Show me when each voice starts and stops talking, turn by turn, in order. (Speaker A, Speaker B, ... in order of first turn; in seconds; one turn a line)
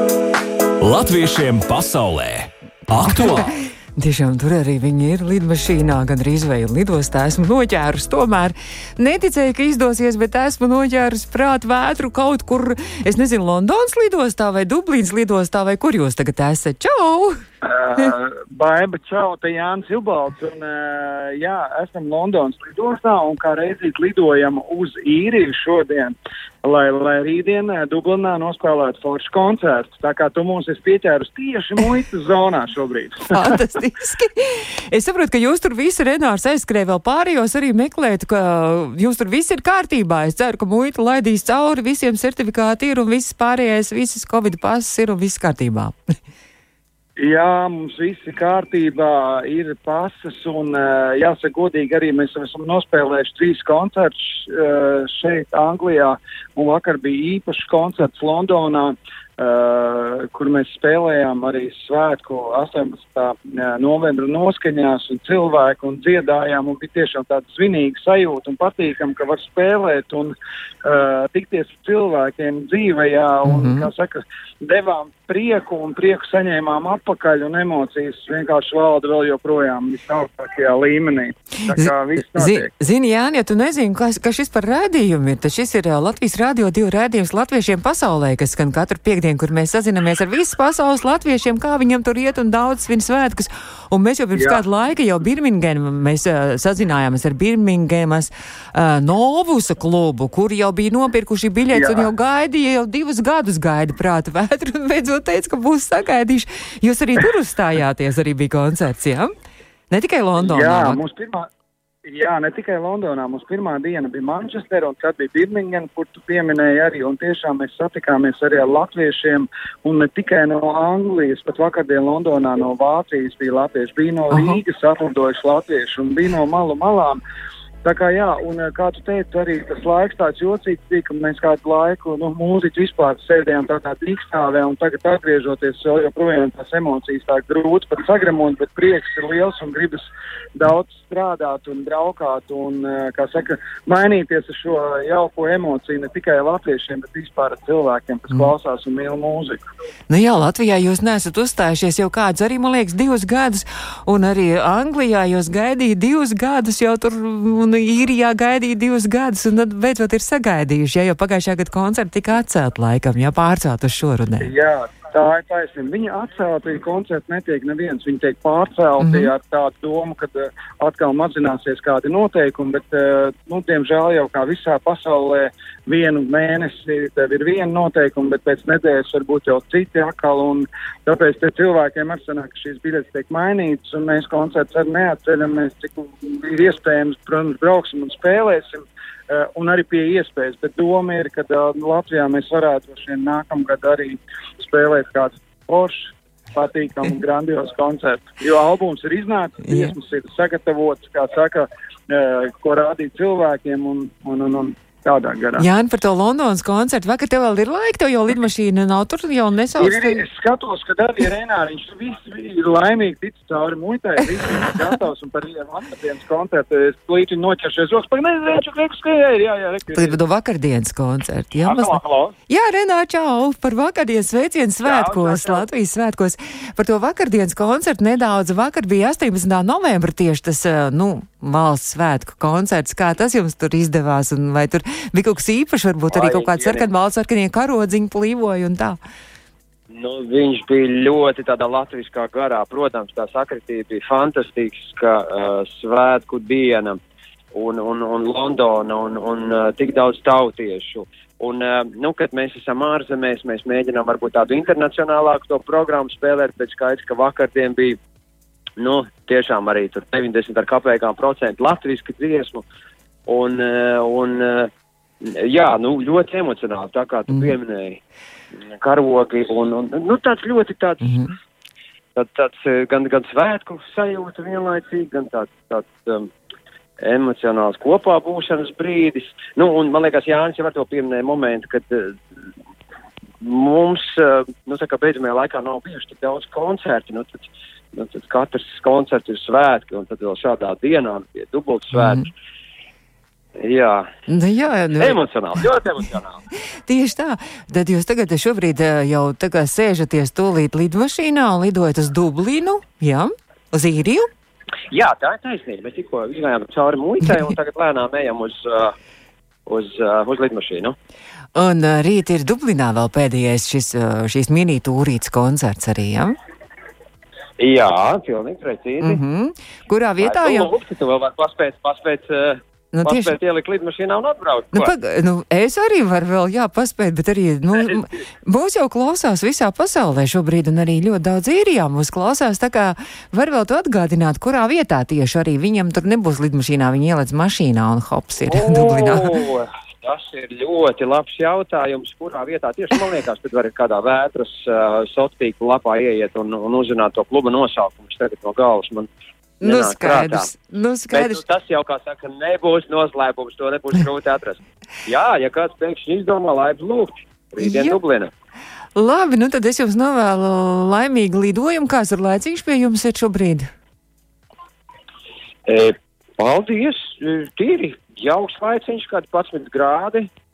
Speaker A: 0.8-3.5
Speaker B: 3.1-17.4
Speaker C: 17.6-33.6
Speaker B: 33.3-46.0
Speaker C: 47.2-82.7
Speaker B: 73.5-73.9
Speaker B: 81.7-109.3
Speaker C: 94.3-94.6
Speaker C: 101.7-102.1
Speaker B: 109.9-111.0
Speaker C: 110.4-111.5
Speaker C: 112.1-127.2
Speaker B: 124.3-124.6
Speaker C: 127.8-149.7
Speaker B: 150.1-164.5
Speaker C: 164.4-205.7
Speaker B: 169.0-169.3
Speaker B: 199.6-200.0
Speaker B: 205.6-210.2
Speaker C: 209.8-220.2
Speaker B: 219.9-239.0
Speaker D: 221.7-222.3
Speaker D: 224.8-225.7
Speaker D: 236.1-236.9
Speaker D: 239.9-247.0
Speaker D: 247.5-258.0
Speaker D: 258.8-262.6
Speaker D: 263.3-264.7
Speaker D: 265.2-268.0
Speaker D: 268.8-271.3
Speaker B: 271.0-271.3
Speaker D: 272.2-276.3
Speaker D: 277.0-282.2
Speaker D: 283.4-292.3
Speaker B: 291.9-292.2
Speaker D: 293.6-294.1
Speaker B: 294.3-295.2
Speaker D: 295.0-296.4
Speaker B: 296.9-304.3
Speaker D: 304.9-308.9
Speaker D: 309.7-310.9
Speaker B: 311.6-316.4
Speaker D: 317.6-319.2
Speaker B: 319.0-320.7
Speaker D: 320.2-324.9
Speaker B: 322.9-323.4
Speaker B: 324.7-339.4
Speaker D: 338.4-349.1
Speaker B: 349.6-351.4
Speaker D: 349.6-350.5
Speaker D: 351.1-358.3
Speaker B: 357.6-358.0
Speaker B: 358.9-363.7
Speaker D: 365.7-370.3